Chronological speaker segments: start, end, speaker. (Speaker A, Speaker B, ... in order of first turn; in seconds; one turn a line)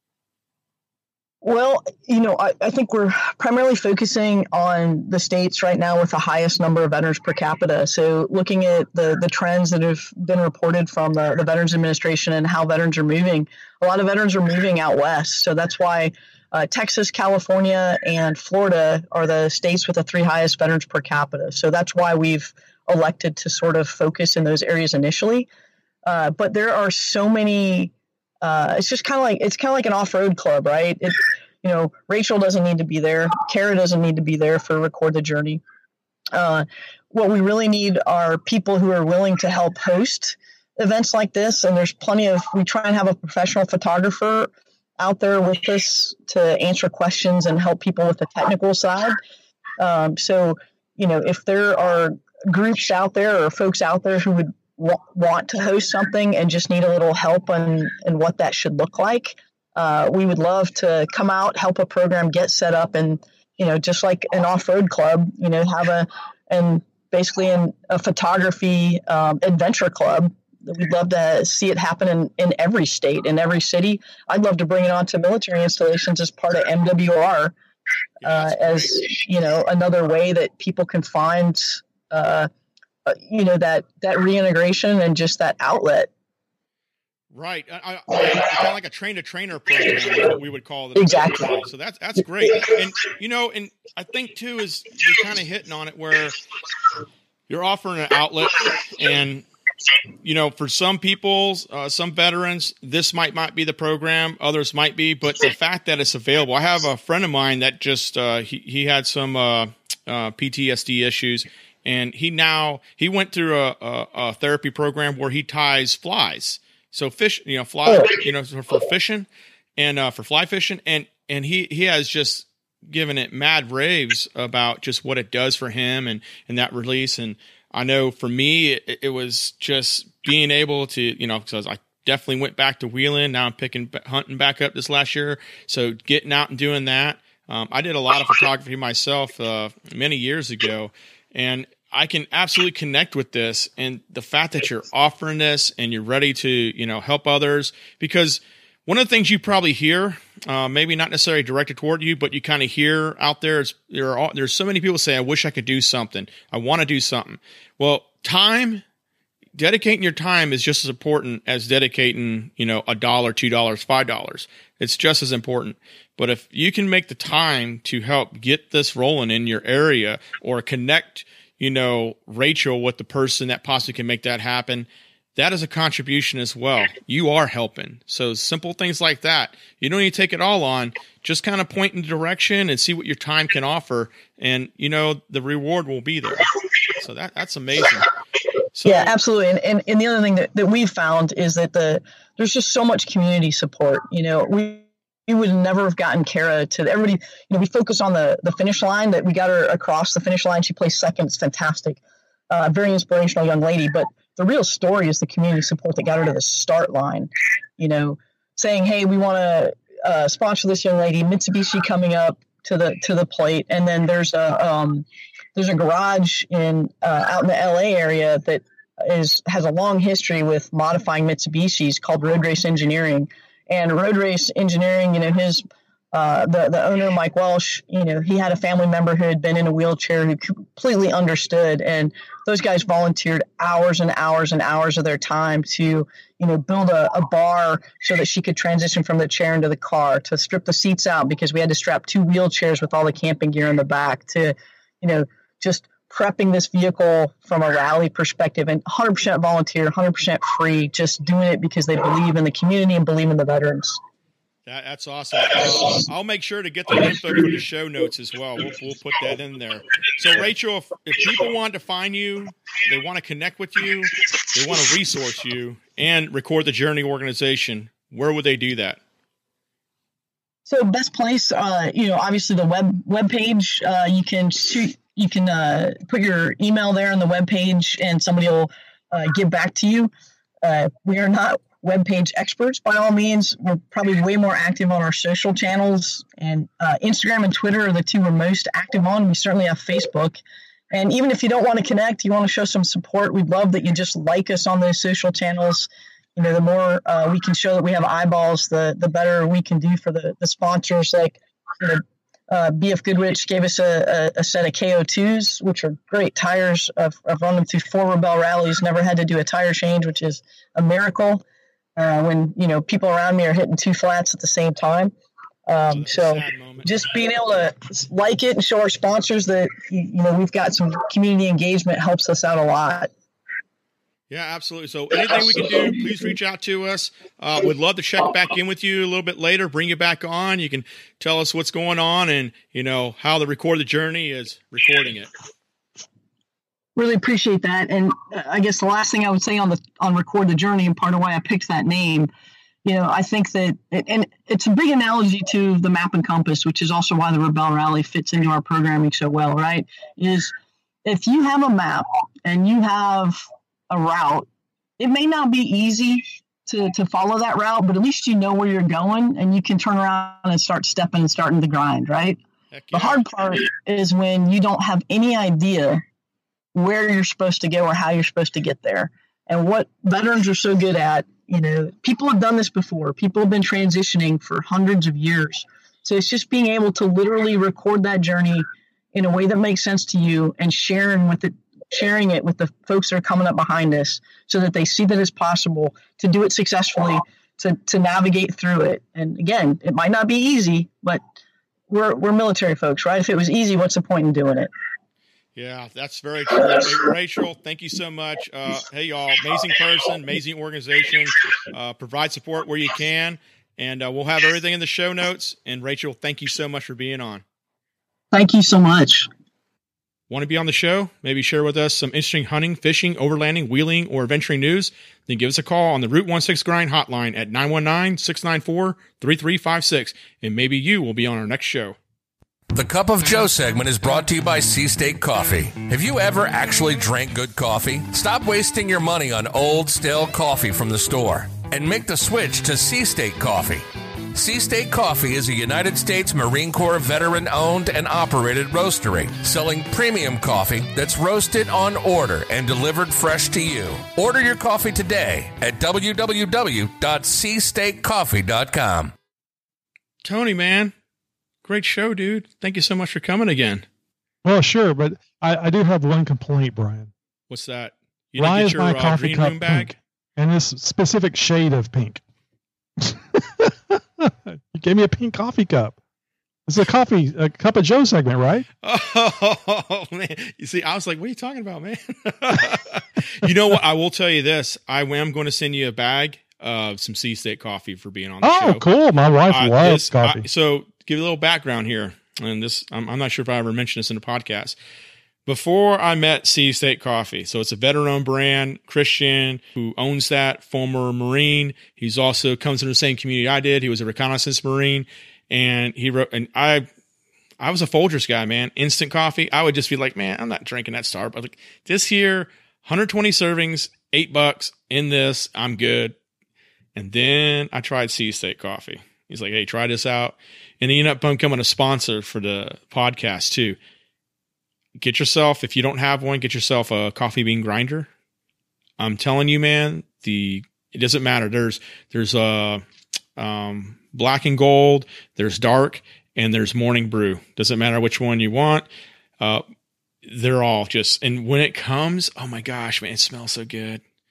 Speaker A: 1.4-25.5
Speaker A: 26.1-35.6
Speaker A: 36.3-49.2
Speaker A: 49.8-77.5
Speaker B: 78.2-79.0
Speaker A: 78.2-82.5
Speaker A: 83.1-86.1
Speaker B: 87.3-96.4
Speaker A: 91.0-91.6
Speaker B: 97.5-99.5
Speaker B: 100.2-158.8
Speaker B: 159.6-188.1
Speaker B: 188.7-189.1
Speaker A: 188.8-202.0
Speaker A: 202.5-254.0
Speaker B: 254.7-269.0
Speaker A: 270.7-280.1
Speaker A: 280.6-290.4
Speaker A: 290.9-311.4
Speaker A: 312.0-315.1
Speaker A: 315.7-323.1
Speaker B: 315.9-317.0
Speaker B: 324.3-335.3
Speaker A: 337.0-342.3
Speaker A: 342.9-350.5
Speaker A: 351.1-354.5
Speaker A: 355.0-362.4
Speaker B: 362.7-363.2
Speaker A: 362.9-366.0
Speaker A: 366.8-391.2
Speaker A: 391.9-394.7
Speaker B: 395.6-407.4
Speaker A: 408.3-409.3
Speaker B: 410.3-422.0
Speaker C: 422.7-449.1
Speaker B: 450.2-450.9
Speaker B: 451.6-453.9
Speaker D: 454.4-457.1
Speaker B: 457.5-460.0
Speaker D: 458.4-462.2
Speaker D: 463.0-466.0
Speaker D: 466.7-468.7
Speaker B: 468.8-478.9
Speaker D: 478.4-480.4
Speaker B: 479.5-484.8
Speaker B: 485.5-496.9
Speaker B: 497.6-506.2
Speaker B: 507.0-513.8
Speaker B: 515.0-518.1
Speaker B: 519.0-522.8
Speaker B: 523.4-528.9
Speaker B: 530.2-534.0